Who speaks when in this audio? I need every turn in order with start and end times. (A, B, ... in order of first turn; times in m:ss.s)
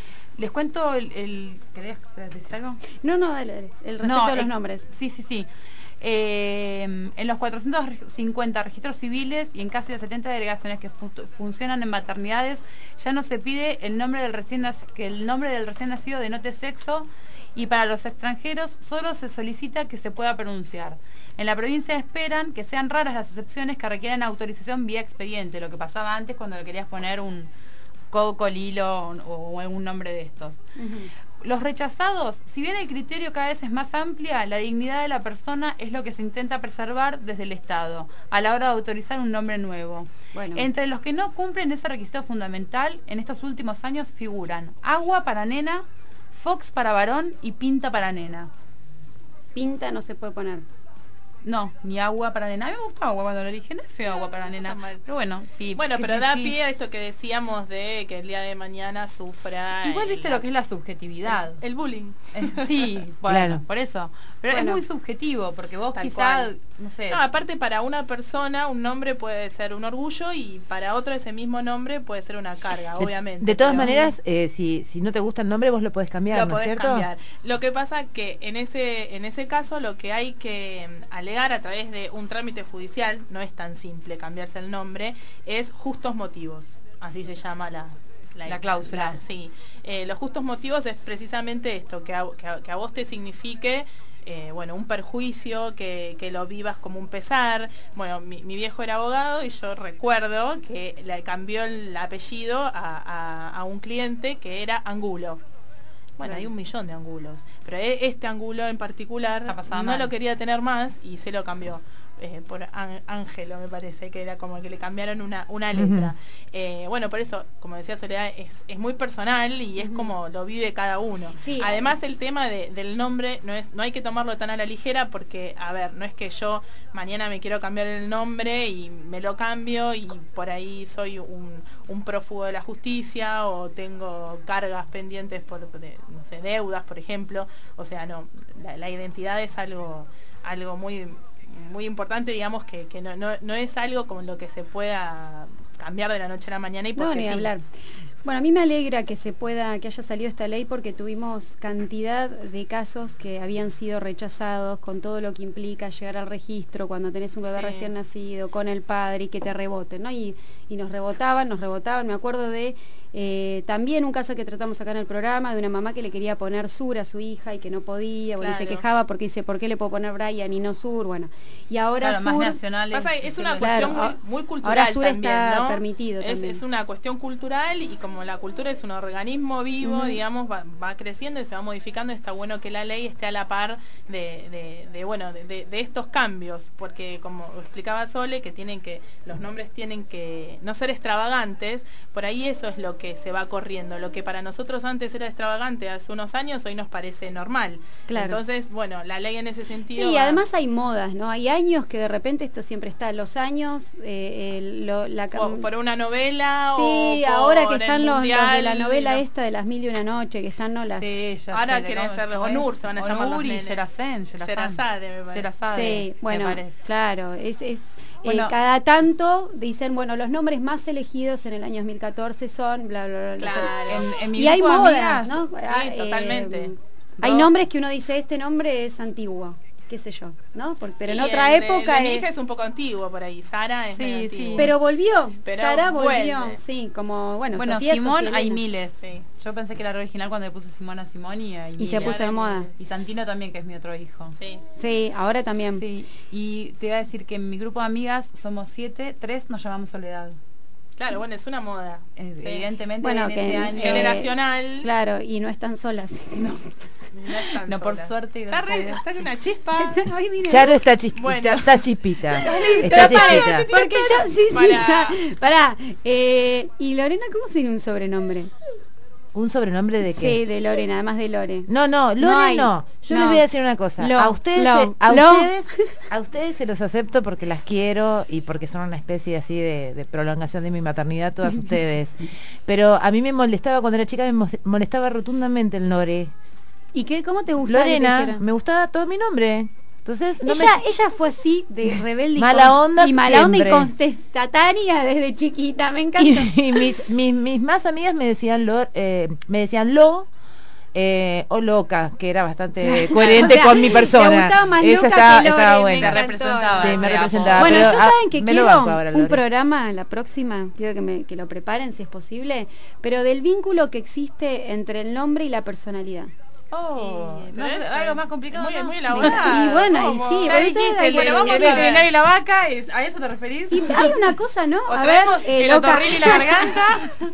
0:00.4-0:02.8 A
0:03.0-0:04.9 B
0:04.0-0:05.5 A
0:06.0-0:27.5 A
0:28.1-0:30.6 A
0:30.8-0:31.1 B
0:31.4-0:48.5 A
0:40.3-0:40.7 B
0:49.5-0:50.6 B
0:51.4-0:56.6 A
0:54.0-0:55.0 C
0:55.7-1:00.4 C
0:59.8-1:01.6 A
1:01.3-1:02.9 C
1:02.3-1:07.2 A
1:03.3-1:03.6 D
1:04.5-1:04.8 B
1:05.9-1:06.5 C
1:07.1-1:13.9 C
1:13.0-1:17.1 D
1:13.8-1:14.1 B
1:16.3-1:45.4 C
1:28.4-1:29.2 A
1:46.2-2:27.5 C
1:49.5-1:50.1 A
1:55.7-1:56.1 D
1:59.8-2:00.1 B
2:01.4-2:01.9 B
2:27.0-2:27.6 B
2:28.2-2:52.6 B
2:37.5-2:37.9 C
2:48.4-2:48.8 C
2:52.0-2:54.0 A
2:52.9-3:20.4 C
2:53.6-2:56.6 B
2:59.8-3:00.2 B
3:18.1-3:18.4 B
3:19.9-3:25.6 B
3:25.3-3:29.2 C
3:26.7-3:31.2 B
3:30.9-3:36.8 A
3:31.5-3:33.8 C
3:34.4-3:35.4 C
3:35.7-3:52.2 B
3:38.2-3:38.5 A
3:43.4-3:44.1 C
3:43.8-3:45.4 A
3:45.5-3:46.7 C
3:47.2-3:47.5 A
3:51.0-3:54.7 C
3:53.9-3:54.7 A
3:54.6-3:58.6 B
3:55.4-3:56.6 C
3:57.6-4:02.2 A
4:01.8-4:02.7 B
4:01.9-4:02.8 C
4:02.8-4:04.4 A
4:04.4-4:04.6 C
4:04.8-4:05.8 B
4:05.8-4:10.4 A
4:11.0-4:12.6 C
4:12.2-4:14.2 A
4:13.0-4:16.7 B
4:13.7-4:14.9 C
4:17.1-4:20.0 C
4:17.5-4:19.0 A
4:19.8-4:20.8 B
4:20.5-4:23.7 D
4:21.1-4:21.8 C
4:22.3-4:25.2 C
4:22.3-4:28.5 B
4:29.3-4:30.4 D
4:30.0-4:33.4 B
4:31.7-4:46.3 D
4:34.0-4:36.0 B
4:46.9-4:48.4 B
4:47.6-4:50.8 D
4:50.4-4:57.1 B
4:52.4-4:53.9 D
4:56.2-5:00.3 D
5:00.9-5:09.4 D
5:02.8-5:16.3 B
5:03.2-5:03.7 A
5:06.0-5:08.0 A
5:16.7-5:19.6 A
5:17.0-5:22.1 C
5:19.1-5:22.0 B
5:20.4-5:24.2 A
5:23.7-5:26.8 B
5:24.9-5:27.0 C
5:25.6-5:27.1 A